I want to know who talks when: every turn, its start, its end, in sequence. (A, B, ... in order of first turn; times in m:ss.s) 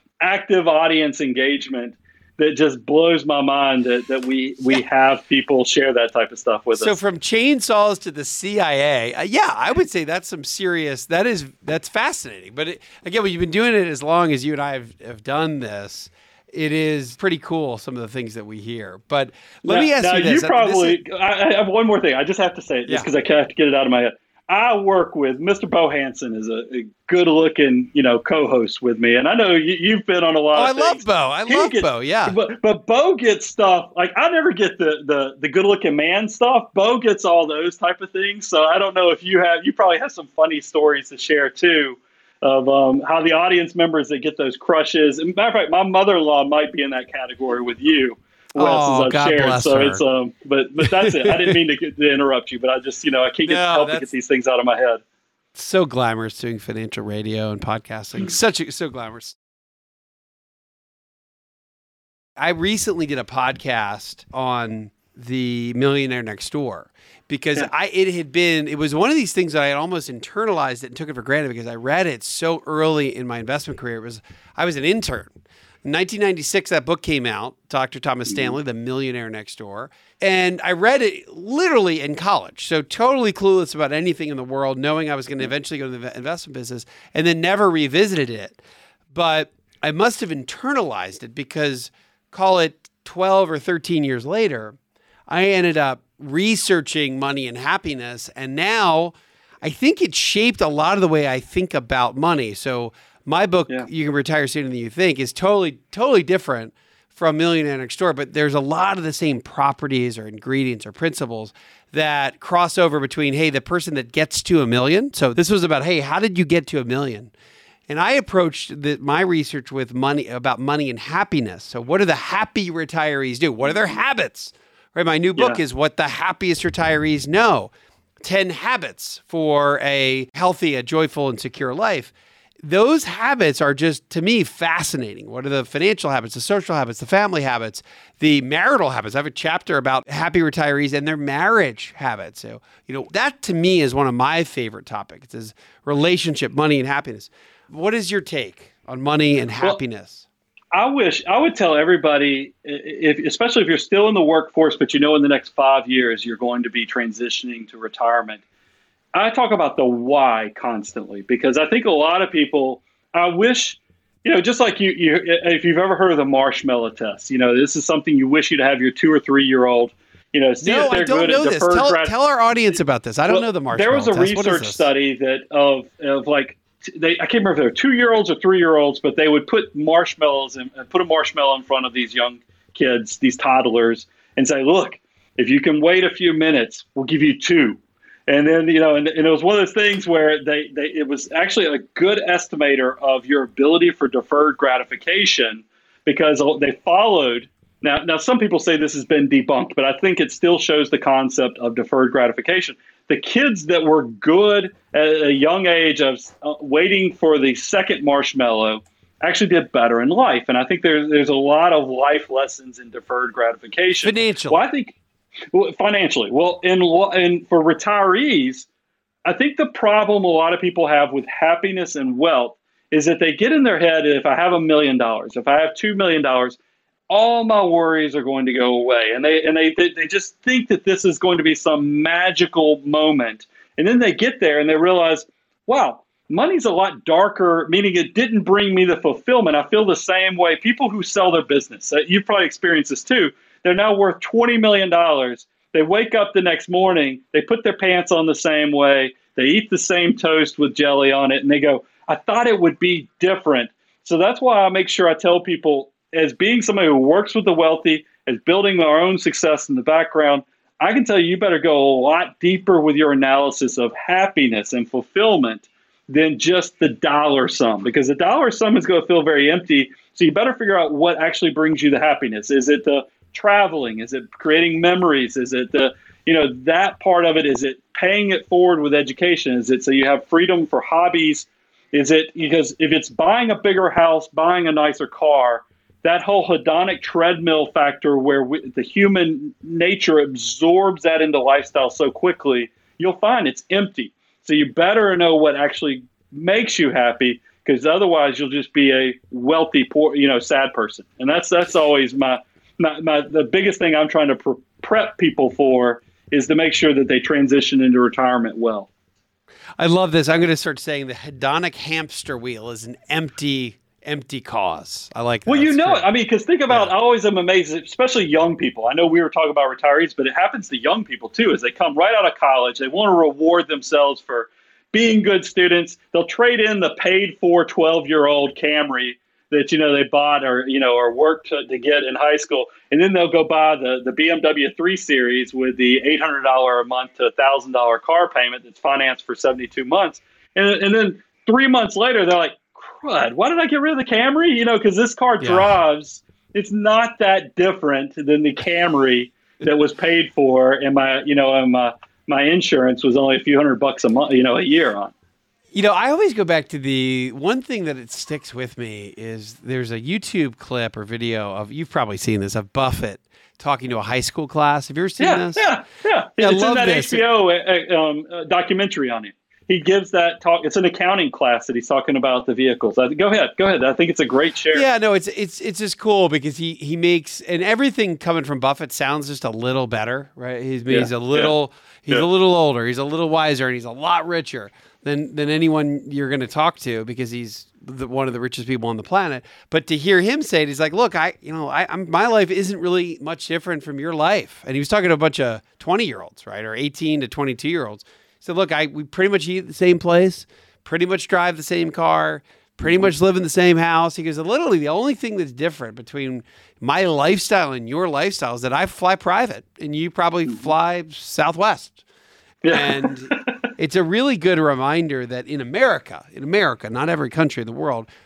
0:00.2-0:07.0 A
0:06.7-0:21.0 B
0:19.7-0:55.0 A
0:30.6-0:32.4 B
0:48.6-0:50.0 B
0:50.8-0:51.6 B
0:53.5-0:54.1 B
0:55.6-0:59.4 B
1:02.4-1:28.6 B
1:29.1-1:34.8 B
1:35.3-1:57.3 B
1:57.9-2:30.3 B
2:03.7-2:04.0 A
2:30.7-2:38.4 A
2:39.1-2:52.1 A
2:50.6-2:54.9 B
2:53.3-3:35.0 A
3:34.0-3:34.6 B
3:35.5-3:38.7 A
3:39.2-3:46.6 A
3:47.1-5:08.9 A
5:09.8-5:16.1 B
5:15.5-5:55.1 A
5:45.4-5:45.7 B
5:55.7-6:05.7 B
6:05.2-6:14.9 A
6:06.4-6:07.2 B
6:14.7-6:52.0 B
6:20.9-6:21.5 A
6:42.8-6:43.1 A
6:52.6-6:53.6 A
6:52.7-6:58.1 B